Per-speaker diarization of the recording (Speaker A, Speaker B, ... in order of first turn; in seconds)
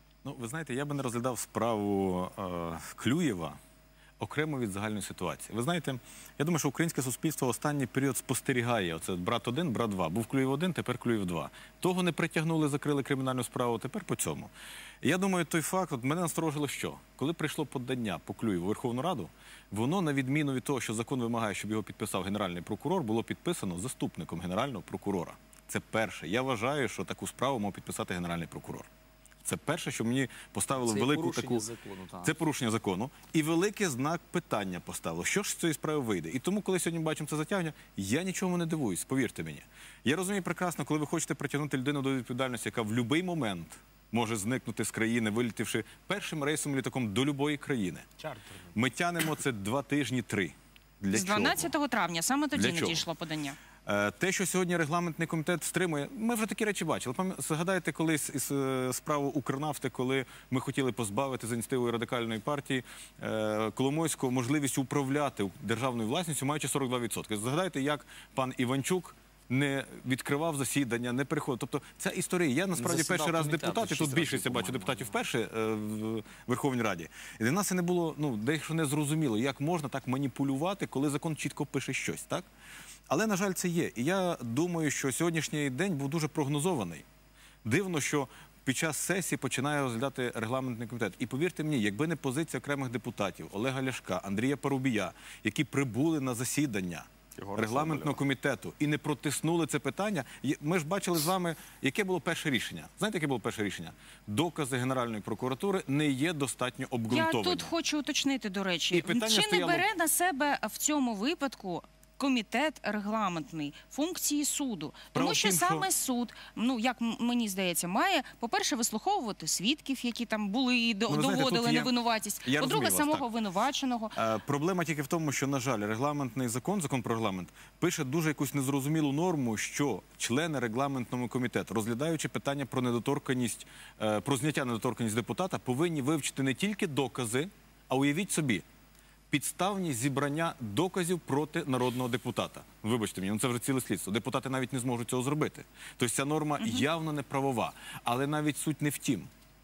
Speaker A: 0.2-3.5, 4.2-14.5, 15.0-28.9, 29.4-31.7, 32.2-48.1, 48.7-51.7, 52.5-53.1, 53.8-82.5, 83.1-87.0, 87.6-107.7, 108.9-109.8, 115.1-115.9, 121.1-123.3, 124.1-138.6, 139.3-149.3
Speaker B: 30.8-32.3, 72.8-75.1, 97.4-98.1
Speaker C: 51.1-53.6, 107.1-124.1, 146.6-146.8